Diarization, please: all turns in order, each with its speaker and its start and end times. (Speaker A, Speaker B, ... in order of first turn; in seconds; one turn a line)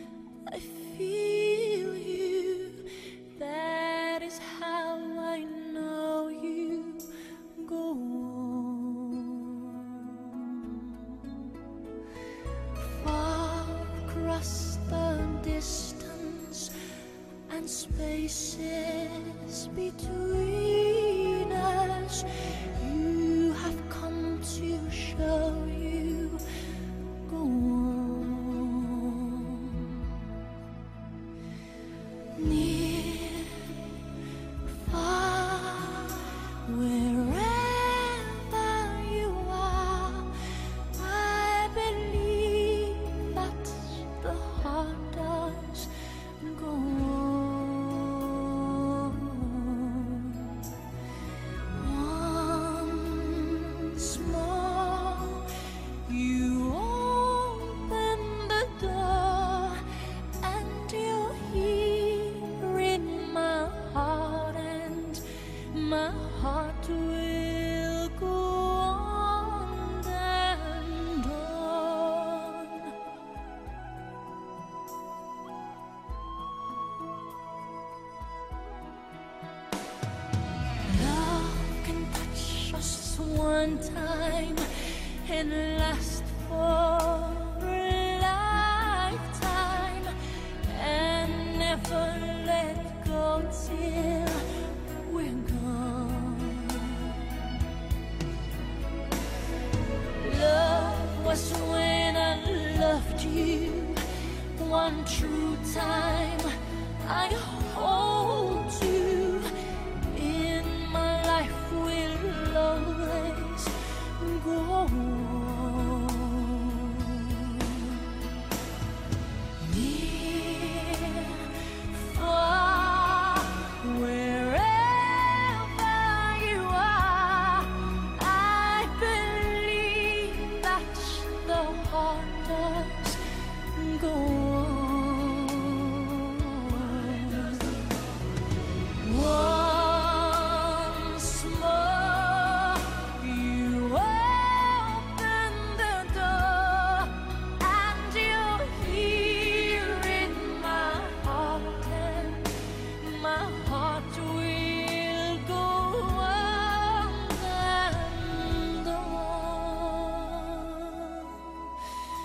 Speaker A: 0.5-7.0
Speaker A: 7.6-10.1
Speaker A: 12.8-16.7
Speaker A: 17.5-26.4
Speaker A: 27.2-29.9
Speaker A: 32.4-33.7
Speaker A: 34.7-36.1
Speaker A: 36.7-40.3
Speaker A: 41.0-45.9
Speaker A: 46.4-50.5
Speaker A: 51.8-55.5
Speaker A: 56.1-59.8
Speaker A: 60.4-72.9
Speaker A: 80.9-84.6
Speaker A: 85.2-90.1
Speaker A: 90.7-94.4
Speaker A: 95.0-97.0
Speaker A: 100.2-104.0
Speaker A: 104.5-106.5
Speaker A: 107.0-109.5
Speaker A: 110.1-117.8
Speaker A: 119.6-133.2
Speaker A: 133.7-137.8
Speaker A: 139.0-161.3